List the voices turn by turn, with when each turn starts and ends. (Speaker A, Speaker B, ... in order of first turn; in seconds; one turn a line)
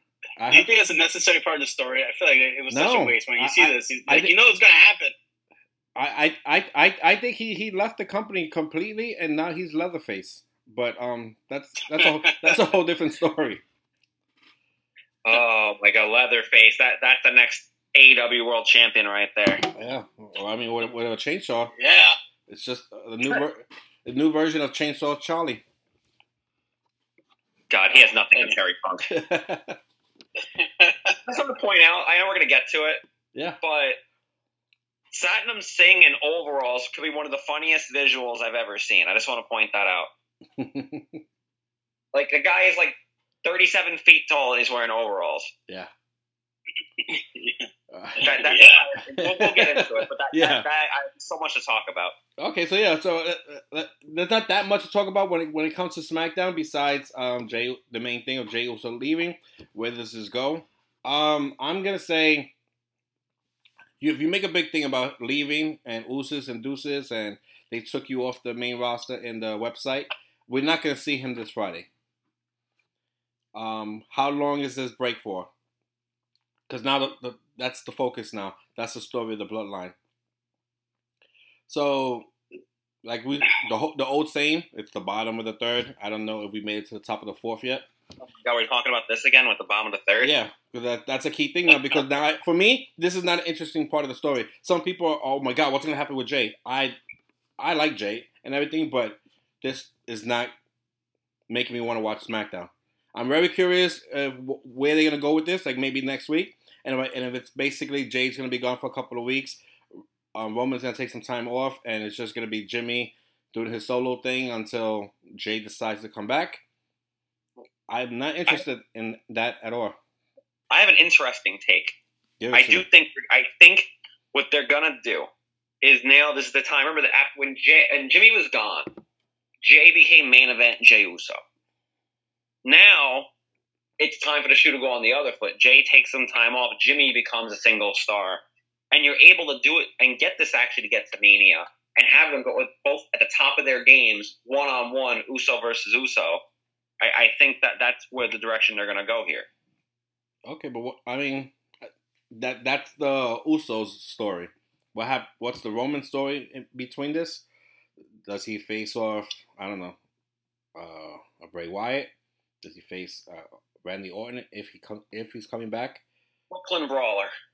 Speaker A: 0.4-0.7
Speaker B: 0.5-5.1
Speaker A: 2.7-4.3
Speaker A: 6.0-13.6
Speaker B: 11.9-12.7
Speaker C: 15.2-19.6
Speaker A: 19.7-21.7
Speaker B: 21.8-22.1
Speaker A: 22.5-25.6
Speaker C: 27.7-29.1
Speaker A: 29.1-29.8
Speaker B: 30.6-31.1
Speaker C: 31.3-33.0
Speaker A: 33.3-33.6
Speaker C: 33.6-34.0
Speaker C: 35.1-40.1
Speaker A: 40.6-41.2
Speaker C: 42.1-45.5
Speaker B: 47.0-47.7
Speaker A: 47.9-48.4
Speaker C: 48.2-52.1
Speaker B: 48.2-48.8
Speaker A: 49.1-50.7
Speaker A: 52.4-62.5
Speaker A: 64.0-71.9
Speaker A: 73.5-75.5
Speaker A: 76.7-80.0
Speaker A: 81.7-82.3
Speaker A: 83.0-87.9
Speaker C: 88.3-90.3
Speaker A: 90.2-97.0
Speaker A: 97.6-100.5
Speaker A: 101.5-109.6
Speaker A: 110.3-116.6
Speaker A: 117.9-120.0
Speaker C: 120.7-122.0
Speaker A: 122.4-122.8
Speaker C: 122.5-125.3
Speaker C: 125.8-128.9
Speaker C: 129.6-131.4
Speaker C: 132.7-133.3
Speaker C: 134.0-138.4
Speaker C: 138.9-146.4
Speaker C: 147.0-149.5
Speaker A: 150.5-151.6
Speaker A: 152.3-157.4
Speaker A: 158.2-160.0
Speaker A: 160.8-162.1
Speaker A: 162.6-166.0
Speaker C: 166.5-167.3